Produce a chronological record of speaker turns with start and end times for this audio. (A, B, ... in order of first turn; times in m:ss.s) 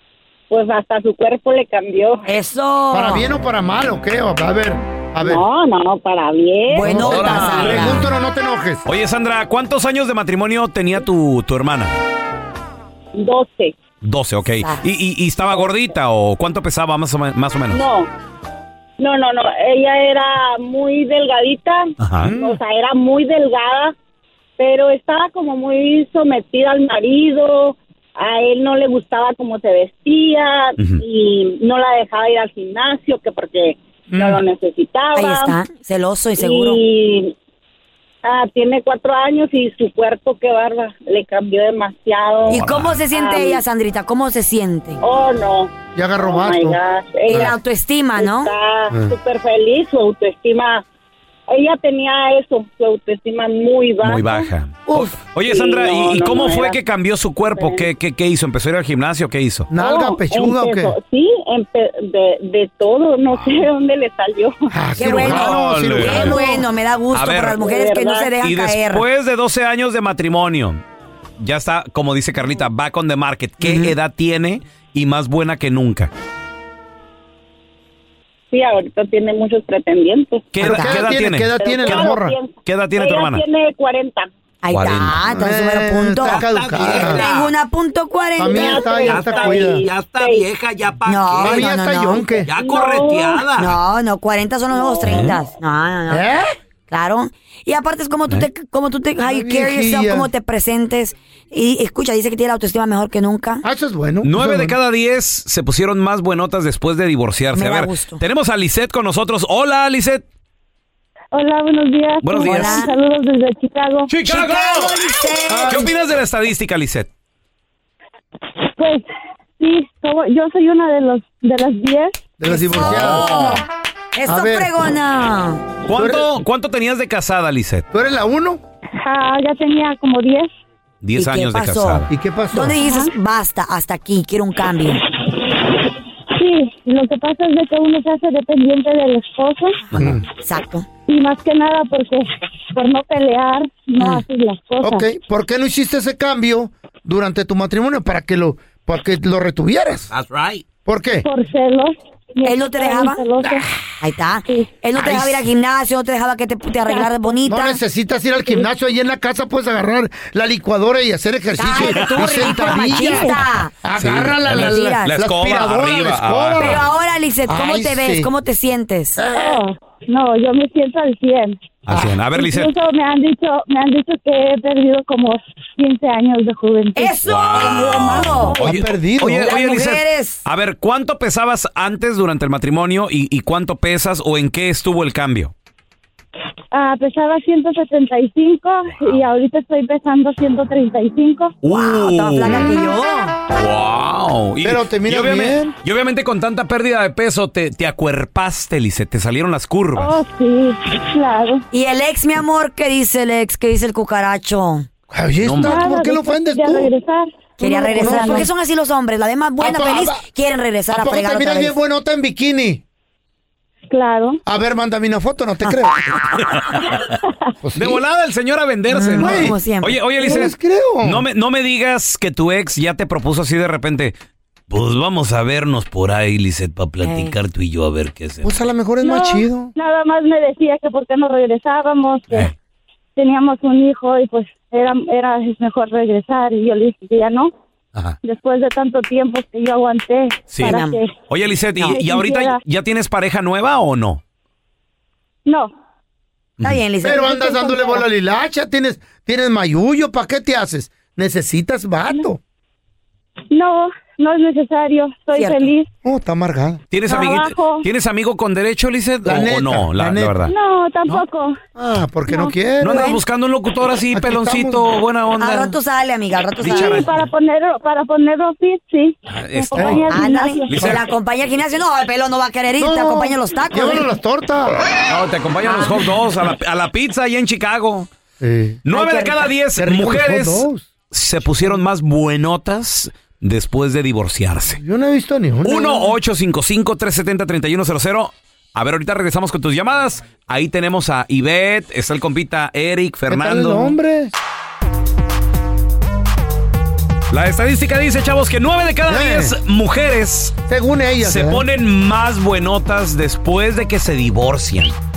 0:00.5-0:02.2 A
0:02.3-0:03.3 B
0:02.9-0:05.4 C
0:05.2-0:07.1 A
0:06.7-0:08.1 B
0:06.8-0:08.8 C
0:06.9-0:08.1 D
0:08.8-0:12.0 D
0:13.1-0:13.7 A
0:14.0-0:17.8 D
0:17.7-0:18.1 A
0:19.0-0:23.9 A
0:22.0-0:22.3 D
0:22.2-0:22.6 C
0:24.6-0:35.6 A
0:30.8-0:31.0 D
0:34.1-0:34.4 C
0:35.1-0:36.8 B
0:36.4-0:37.3 A
0:38.2-0:43.6 A
0:42.5-0:45.0 B
0:42.5-0:43.0 D
0:45.0-0:47.5 A
0:45.9-0:46.8 C
0:47.3-0:48.5 B
0:48.2-0:50.8 A
0:51.5-0:56.8 A
0:54.0-0:59.7 D
0:57.5-0:57.9 A
0:59.7-1:00.9 C
0:59.7-1:04.7 A
1:03.3-1:03.6 D
1:04.7-1:06.6 C
1:05.0-1:09.0 B
1:05.2-1:06.5 D
1:07.1-1:07.6 D
1:07.5-1:08.3 A
1:08.4-1:10.8 D
1:11.4-1:16.1 D
1:13.6-1:13.9 B
1:18.5-1:20.5 A
1:20.5-1:23.4 D
1:20.6-1:22.3 C
1:20.6-1:21.0 B
1:21.6-1:24.3 A
1:24.6-1:29.1 B
1:24.7-1:25.2 D
1:25.4-1:27.2 C
1:26.2-1:27.6 E
1:28.4-1:29.8 C
1:28.5-1:30.4 A
1:29.1-1:31.7 E
1:31.0-1:32.4 B
1:31.4-1:32.5 C
1:32.4-1:33.8 E
1:32.6-1:33.4 A
1:33.6-1:36.2 B
1:35.0-1:35.3 D
1:36.1-1:36.5 C
1:36.9-1:43.6 B
1:39.2-1:40.3 C
1:43.6-1:44.7 C
1:44.2-1:50.2 D
1:47.5-1:48.2 B
1:51.3-1:54.1 F
1:52.2-1:52.9 D
1:52.4-1:52.9 B
1:54.1-1:55.1 D
1:54.2-1:55.8 B
1:55.5-1:55.9 C
1:55.6-1:57.1 D
1:58.8-1:59.0 F
1:59.6-2:02.2 F
2:02.4-2:03.3 C
2:02.4-2:03.5 B
2:02.8-2:03.6 D
2:04.1-2:05.6 B
2:04.3-2:04.7 C
2:05.8-2:07.9 D
2:05.9-2:06.3 C
2:07.9-2:08.6 C
2:09.0-2:10.5 F
2:11.0-2:12.1 D
2:11.2-2:15.0 B
2:12.1-2:12.8 C
2:12.8-2:13.1 F
2:16.4-2:19.8 F
2:19.9-2:20.2 D
2:20.0-2:20.2 C
2:20.4-2:20.9 B
2:21.1-2:25.0 F
2:24.0-2:24.2 B
2:24.8-2:30.1 C
2:30.1-2:30.6 E
2:30.8-2:31.3 C
2:31.2-2:33.6 F
2:32.4-2:33.2 B
2:34.0-2:37.8 B
2:35.0-2:35.4 C
2:36.8-2:37.4 F
2:37.5-2:46.8 C
2:41.6-2:43.7 B
2:41.7-2:46.8 D
2:44.5-2:45.1 B
2:46.6-2:49.2 B
2:47.5-2:48.3 C
2:49.2-2:49.6 C
2:49.3-2:51.6 F
2:51.8-2:52.8 D
2:52.3-2:58.6 F
2:57.0-2:58.6 B
2:57.2-3:05.5 D
2:58.6-2:59.5 C
2:59.4-3:00.4 B
3:06.7-3:11.5 F
3:08.9-3:09.3 D
3:11.6-3:12.7 D
3:11.7-3:13.3 B
3:13.5-3:20.2 D
3:14.6-3:15.7 C
3:20.0-3:21.6 F
3:21.7-3:24.9 B
3:25.1-3:26.9 C
3:25.4-3:25.9 D
3:25.6-3:28.5 F
3:27.6-3:31.8 B
3:28.0-3:28.5 C
3:29.6-3:30.2 C
3:30.9-3:32.8 C
3:33.9-3:34.4 F
3:34.4-3:36.2 C
3:36.3-3:36.8 D
3:37.6-3:38.0 C
3:37.7-3:44.1 D
3:38.9-3:40.5 B
3:39.2-3:39.5 C
3:40.2-3:41.2 C
3:44.7-3:48.6 D
3:47.0-3:47.3 B
3:48.4-3:49.7 C
3:49.0-3:52.5 F
3:53.2-3:57.5 F
3:58.2-4:01.1 F
4:00.5-4:04.2 D
4:00.6-4:01.0 B
4:01.8-4:02.6 F
4:05.4-4:05.7 F
4:06.6-4:07.3 B
4:07.0-4:12.4 C
4:07.1-4:08.0 F
4:13.5-4:15.9 F
4:15.3-4:15.7 B
4:16.0-4:16.8 C
4:16.9-4:20.5 D
4:17.1-4:17.8 F
4:19.2-4:20.4 C
4:20.5-4:21.6 F
4:21.8-4:23.1 C
4:22.3-4:22.5 F
4:22.8-4:25.8 D
4:24.1-4:24.9 C
4:25.4-4:27.1 B
4:26.6-4:27.1 D
4:26.6-4:30.7 F
4:29.3-4:31.0 D
4:29.7-4:30.1 C
4:30.1-4:34.1 B
4:32.8-4:34.8 C
4:35.1-4:38.1 D
4:35.6-4:36.1 B
4:38.4-4:38.8 C
4:38.8-4:44.8 D
4:38.9-4:39.5 B
4:39.8-4:40.9 C
4:41.4-4:41.8 C
4:44.8-4:46.1 C
4:45.6-4:54.0 D
4:53.3-4:54.3 C
4:57.3-5:00.6 D
4:59.1-4:59.5 C
5:00.7-5:01.6 C
5:01.2-5:05.0 D